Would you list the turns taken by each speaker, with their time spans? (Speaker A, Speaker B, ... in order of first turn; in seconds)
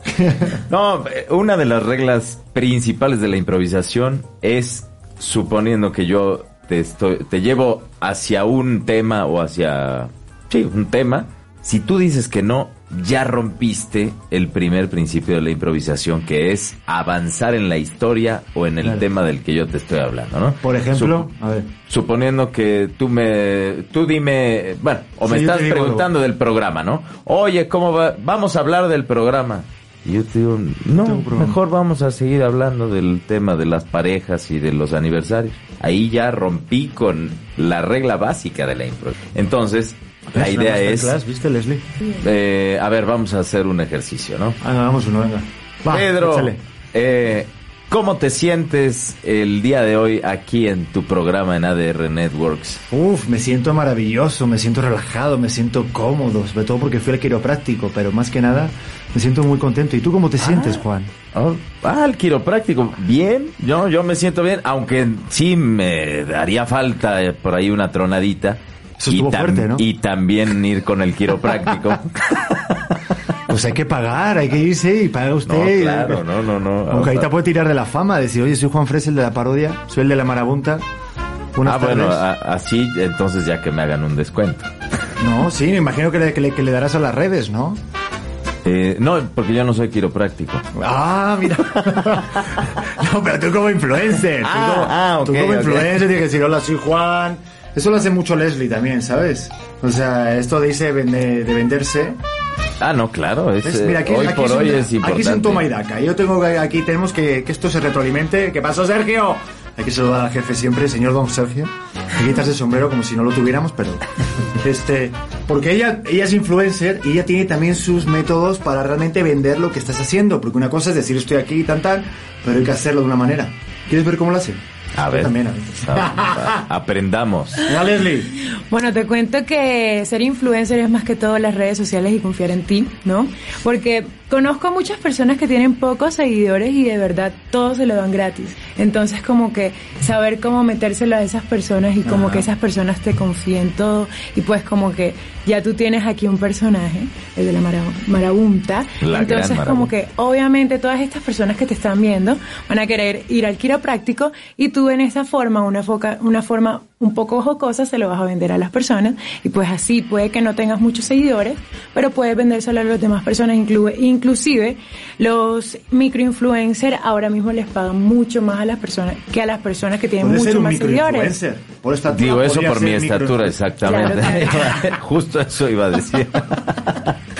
Speaker A: 0.5-21.3, 21.9-41.1, 42.1-44.6, 45.9-52.8, 60.4-73.1, 75.4-77.3, 81.6-84.7, 88.6-90.7, 94.3-96.0, 102.8-105.7, 124.9-127.7, 142.1-142.4, 149.0-149.9, 172.1-177.1
Speaker B: 20.6-21.7, 25.2-26.1, 31.0-31.6, 40.3-41.8, 44.6-46.6, 52.9-61.1, 69.0-69.8, 73.5-76.2, 76.9-80.8, 81.5-82.2, 85.2-87.8, 90.7-102.2, 103.6-114.0, 114.5-126.6, 127.7-128.3, 170.2-173.7
Speaker C: 128.6-171.3, 173.8-174.8